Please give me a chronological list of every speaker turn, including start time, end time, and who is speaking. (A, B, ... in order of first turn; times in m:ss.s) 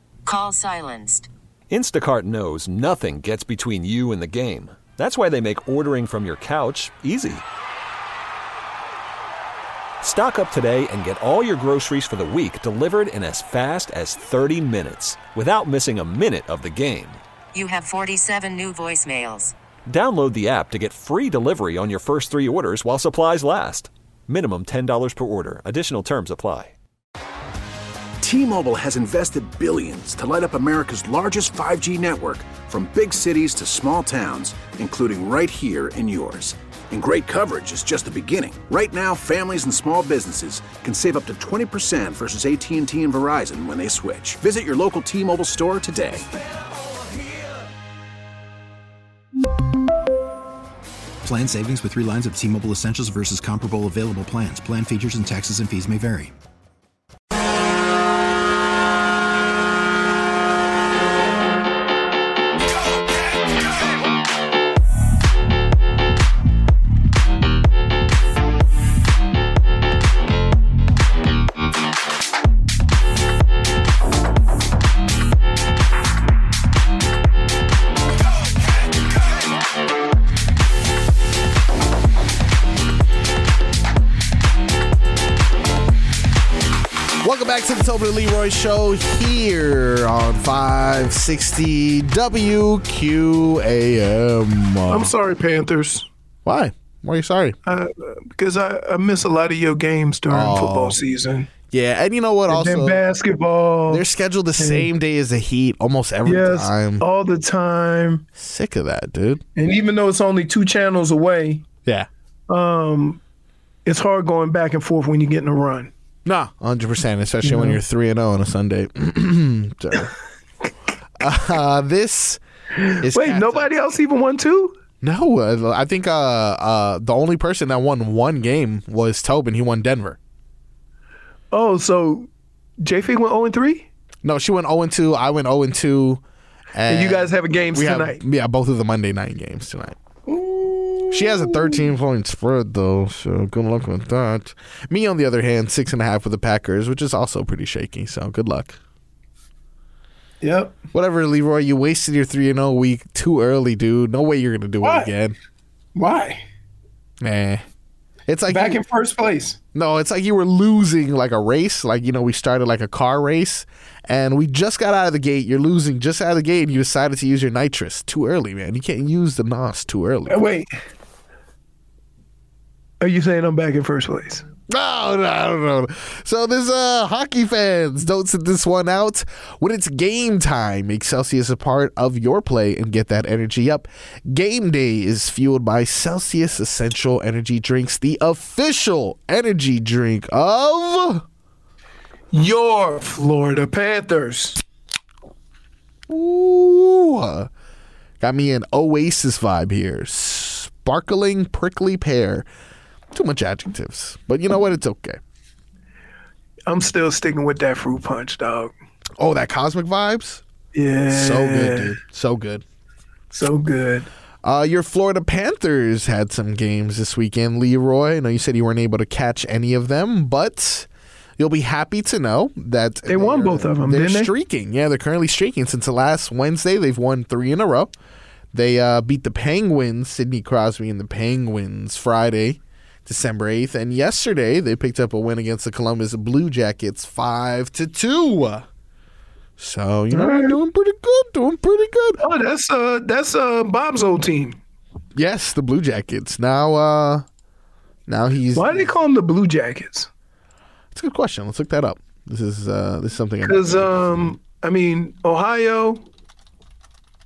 0:00.3-0:01.3 A
0:01.7-0:07.4 B
0:10.0-0:17.2 B
0:17.5-0:19.5 A
0:19.9-0:26.8 B
0:28.2-0:46.3 C
0:51.2-0:56.3 D
1:27.2-1:35.1 E
1:34.9-1:36.1 F
1:36.4-1:37.6 E
1:37.7-1:41.5 F
1:40.3-1:41.0 E
1:41.7-1:43.0 E
1:42.5-1:44.0 F
1:43.9-1:47.0 E
1:44.6-1:44.9 F
1:46.3-1:48.2 F
1:48.4-1:49.4 E
1:49.6-1:51.6 F
1:52.5-1:53.2 F
1:53.9-1:55.9 F
1:56.2-2:00.1 E
1:57.4-1:57.8 F
2:01.2-2:02.4 E
2:03.0-2:03.7 E
2:03.1-2:04.8 F
2:05.0-2:10.2 E
2:11.5-2:12.3 F
2:12.8-2:13.9 F
2:14.2-2:16.2 E
2:16.7-2:20.0 E
2:16.9-2:18.2 F
2:20.3-2:21.8 F
2:21.1-2:28.8 E
2:30.4-2:30.8 F
2:30.9-2:35.4 E
2:34.8-2:35.1 F
2:36.0-2:36.4 F
2:37.2-2:37.6 E
2:38.3-2:38.8 E
2:38.5-2:39.6 F
2:39.7-2:50.4 E
2:50.3-2:50.7 F
2:53.0-2:54.4 F
2:54.7-3:11.2 E
3:12.3-3:14.6 F
3:16.1-3:17.5 E
3:18.2-3:22.5 E
3:23.1-3:25.2 E
3:26.7-3:28.7 F
3:29.2-3:30.4 E
3:30.7-3:32.0 F
3:31.1-3:32.6 E
3:33.3-3:34.1 F
3:34.4-3:47.9 E
3:43.1-3:44.3 F
3:48.5-3:58.7 E
3:59.6-4:02.2 E
4:00.1-4:00.6 F
4:02.2-4:04.6 F
4:05.2-4:07.3 E
4:08.1-4:08.9 E
4:08.6-4:10.1 F
4:10.9-4:14.4 E
4:13.4-4:16.0 F